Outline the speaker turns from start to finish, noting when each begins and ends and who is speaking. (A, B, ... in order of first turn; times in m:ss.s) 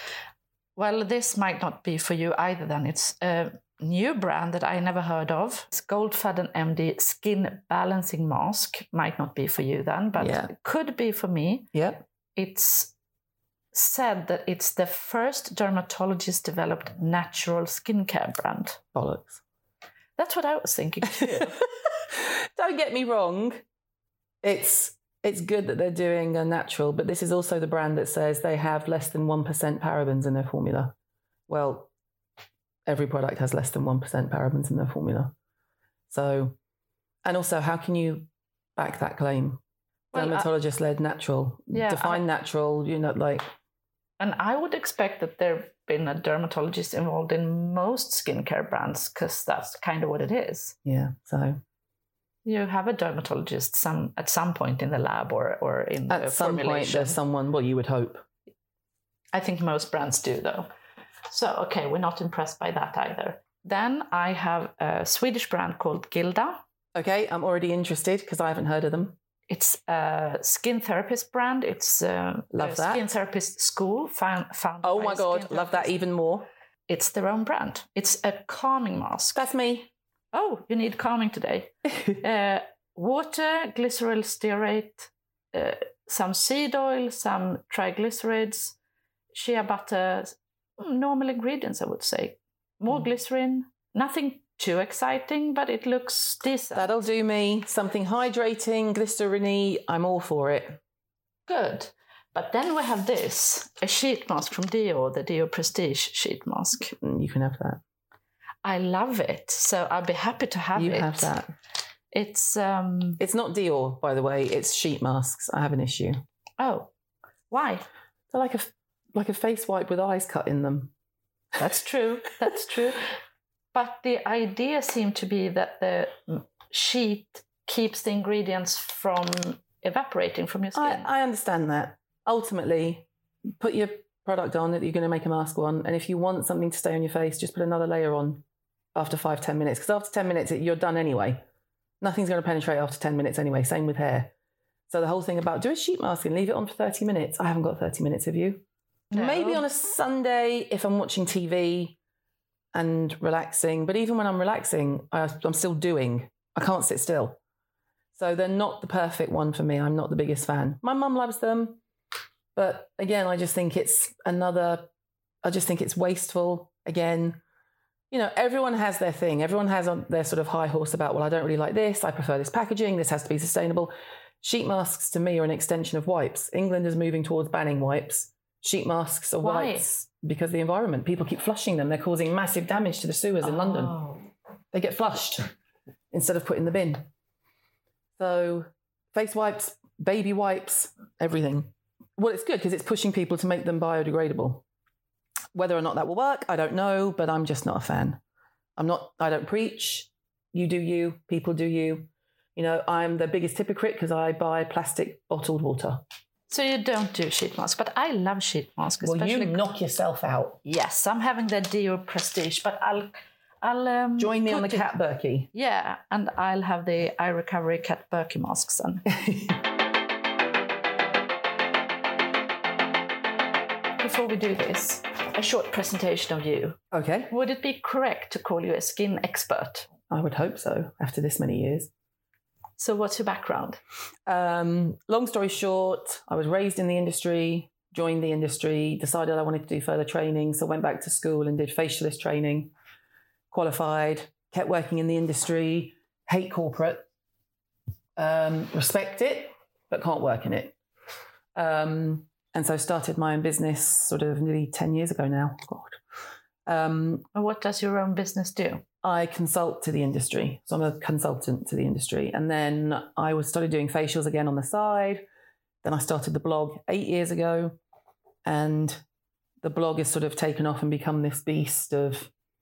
0:00.8-0:11.7 A
0:10.2-0:10.5 B
0:11.7-0:12.0 B
0:12.4-0:12.9 A
0:13.7-0:18.8 A
0:18.9-0:19.4 B
0:20.2-0:21.6 A
0:21.2-0:21.5 B
0:22.1-0:23.6 B
0:24.4-0:30.9 B
0:31.5-0:31.9 B
0:32.8-0:35.3 B
0:36.1-0:36.6 B
0:37.2-0:39.6 B
0:40.1-0:40.5 A
0:40.1-0:43.5 B
0:41.7-0:42.2 A
0:44.2-0:50.8 A
0:50.8-0:51.6 B
0:52.4-0:57.2 A
0:56.1-0:58.2 B
0:59.3-1:00.7 A
1:01.3-1:06.6 A
1:06.9-1:09.2 B
1:09.5-1:15.9 A
1:12.5-1:13.0 B
1:14.8-1:16.5 B
1:16.9-1:19.4 A
1:19.3-1:19.9 B
1:20.3-1:28.8 A
1:29.3-1:36.9 A
1:36.7-1:40.8 B
1:41.5-1:46.9 A
1:47.0-1:47.8 B
1:48.6-1:51.3 A
1:50.7-1:51.5 B
1:52.1-1:53.2 A
1:53.2-1:56.2 B
1:56.6-1:56.9 A
1:57.5-1:57.8 A
1:58.3-2:00.9 B
2:01.6-2:03.1 A
2:03.7-2:11.1 A
2:10.7-2:13.0 B
2:13.6-2:18.4 B
2:18.9-2:21.4 B
2:22.0-2:24.3 B
2:24.9-2:32.0 B
2:29.1-2:29.6 A
2:32.7-2:37.4 B
2:38.1-2:41.8 B
2:42.5-2:44.9 B
2:45.4-2:47.4 B
2:48.1-3:03.9 B
2:59.4-3:00.1 A
3:03.4-3:04.3 A
3:04.7-3:05.5 B
3:06.1-3:07.1 B
3:08.2-3:14.6 B
3:15.5-3:18.2 B
3:18.8-3:26.0 B
3:26.5-3:29.6 A
3:29.0-3:30.6 B
3:30.6-3:34.9 A
3:34.2-3:35.5 B
3:35.5-3:39.0 A
3:39.2-3:39.5 B
3:44.0-3:46.8 A
3:46.9-3:47.3 B
3:47.3-3:49.9 A
3:50.1-3:51.9 B
3:52.8-3:53.8 A
3:54.2-4:02.7 B
4:03.5-4:07.0 B
4:08.2-4:10.7 B
4:11.5-4:16.0 B
4:16.6-4:17.2 B
4:17.3-4:18.8 A
4:19.0-4:25.2 B
4:25.8-4:27.8 B
4:28.4-4:29.0 B
4:29.6-4:32.3 B